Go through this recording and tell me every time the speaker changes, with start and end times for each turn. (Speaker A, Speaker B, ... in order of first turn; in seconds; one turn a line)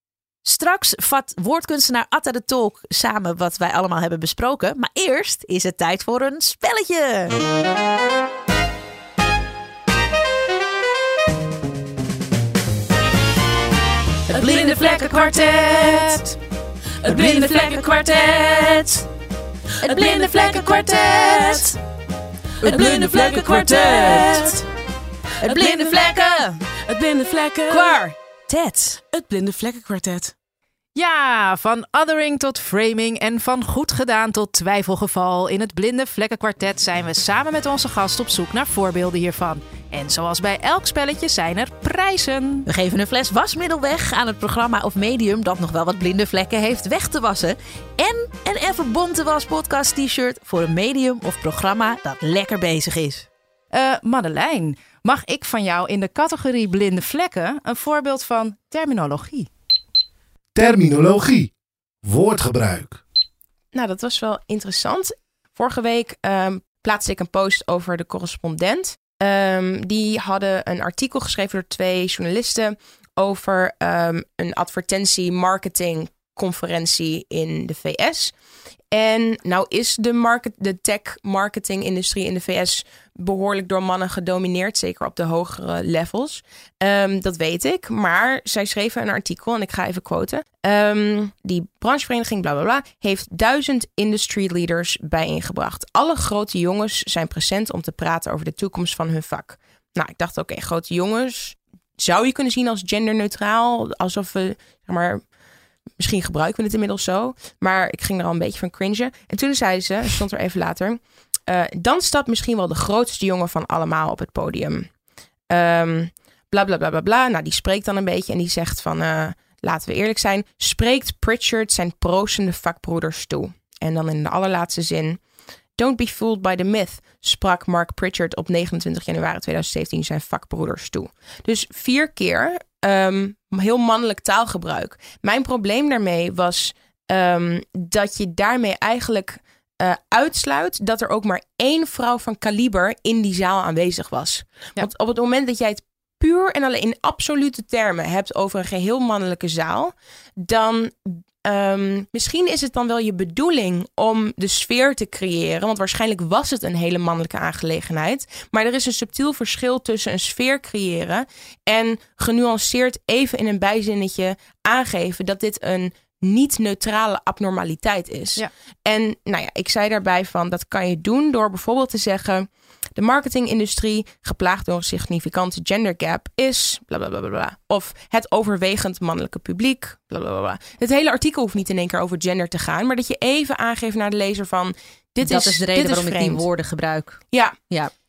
Speaker A: 0.5-7.3
Speaker B: 14.3-16.2
Speaker A: 14.3-15.0
Speaker A: 17.1-17.8
Speaker C: 17.1-18.0
Speaker B: 17.1-18.8
Speaker A: 19.8-21.8
Speaker C: 20.0-20.6
Speaker A: 22.6-24.6
Speaker C: 22.6-24.3
Speaker A: 25.4-26.6
Speaker C: 25.5-26.1
Speaker C: 26.9-27.9
Speaker A: 27.7-29.0
Speaker C: 29.2-30.3
Speaker B: 30.9-42.7
Speaker A: 42.7-53.3
Speaker B: 53.7-59.5
Speaker D: 60.5-61.5
Speaker D: 62.0-63.0
Speaker E: 63.7-78.3
Speaker E: 78.9-105.2
Speaker E: 106.0-114.9
Speaker E: 115.5-125.2
Speaker E: 125.8-186.4
Speaker A: 185.2-187.9